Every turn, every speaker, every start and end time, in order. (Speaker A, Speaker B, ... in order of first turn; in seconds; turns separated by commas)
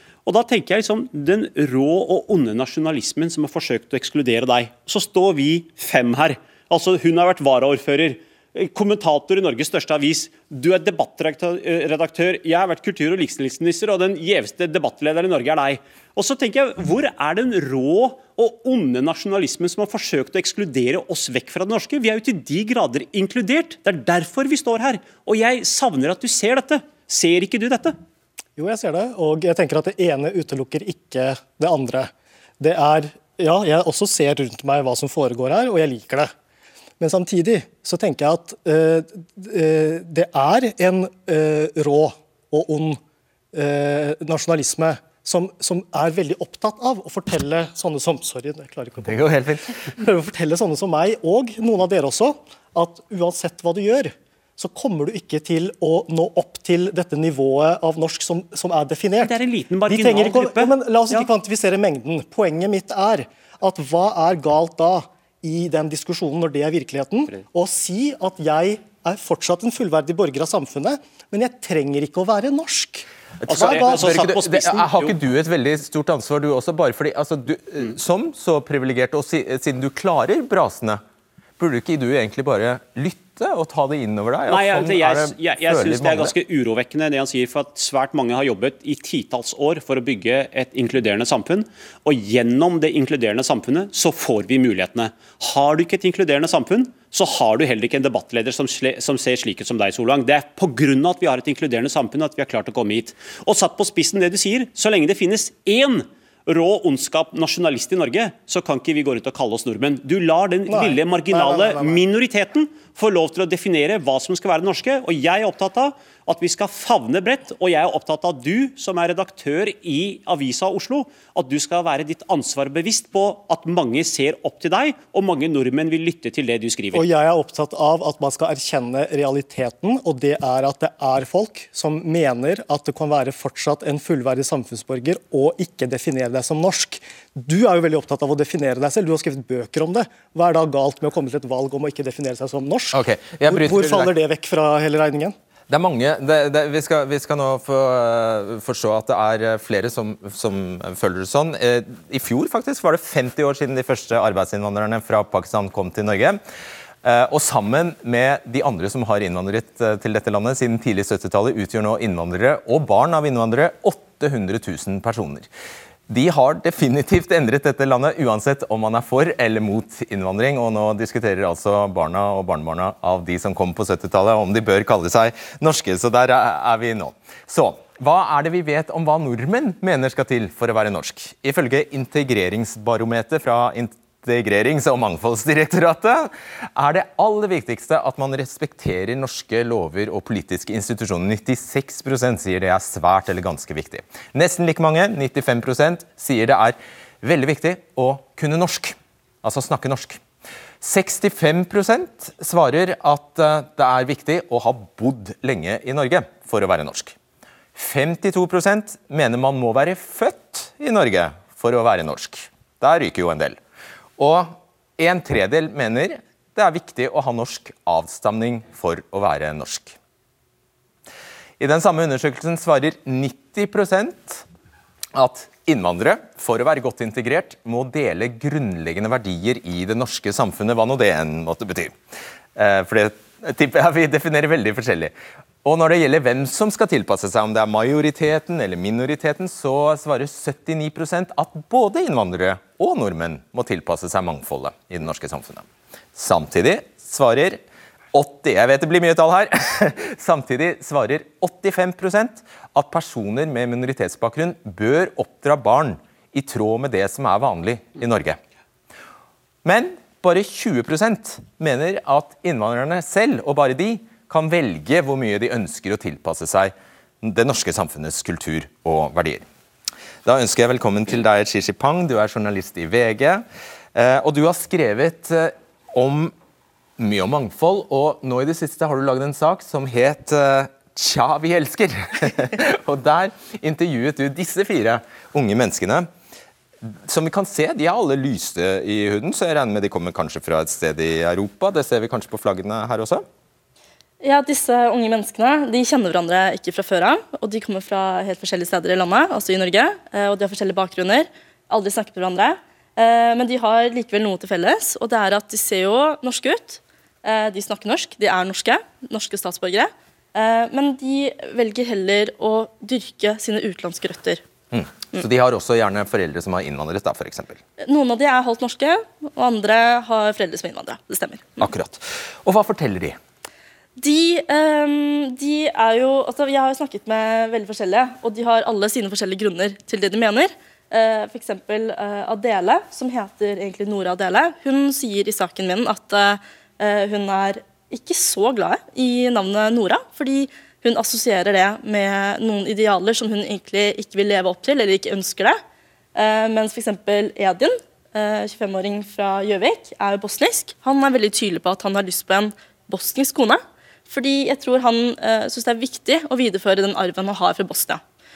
Speaker A: 0.3-28.0, Speaker B: 28.6-36.3, Speaker B: 37.0-43.0, Speaker B: 43.5-49.2, Speaker C: 49.0-49.8, Speaker B: 49.9-73.1, Speaker A: 59.2-61.3, Speaker C: 73.4-81.0, Speaker A: 73.5-75.2, Speaker C: 81.6-86.3, Speaker A: 84.5-127.1, Speaker B: 110.7-112.0, Speaker B: 126.9-145.4, Speaker C: 142.9-144.1, Speaker C: 145.7-156.4, Speaker C: 157.0-165.5, Speaker C: 166.1-200.2, Speaker C: 200.8-207.2, Speaker C: 207.8-213.6, Speaker C: 214.2-220.0, Speaker C: 221.6-224.4, Speaker C: 225.1-232.0, Speaker C: 232.6-235.1, Speaker C: 235.6-247.6, Speaker C: 248.1-258.4, Speaker C: 259.6-269.4, Speaker C: 270.2-276.3, Speaker C: 277.0-286.1, Speaker C: 287.1-293.2, Speaker D: 294.2-314.4, Speaker C: 314.7-317.6, Speaker D: 317.8-321.6, Speaker C: 321.6-323.2, Speaker D: 324.0-345.6, Speaker D: 346.1-358.0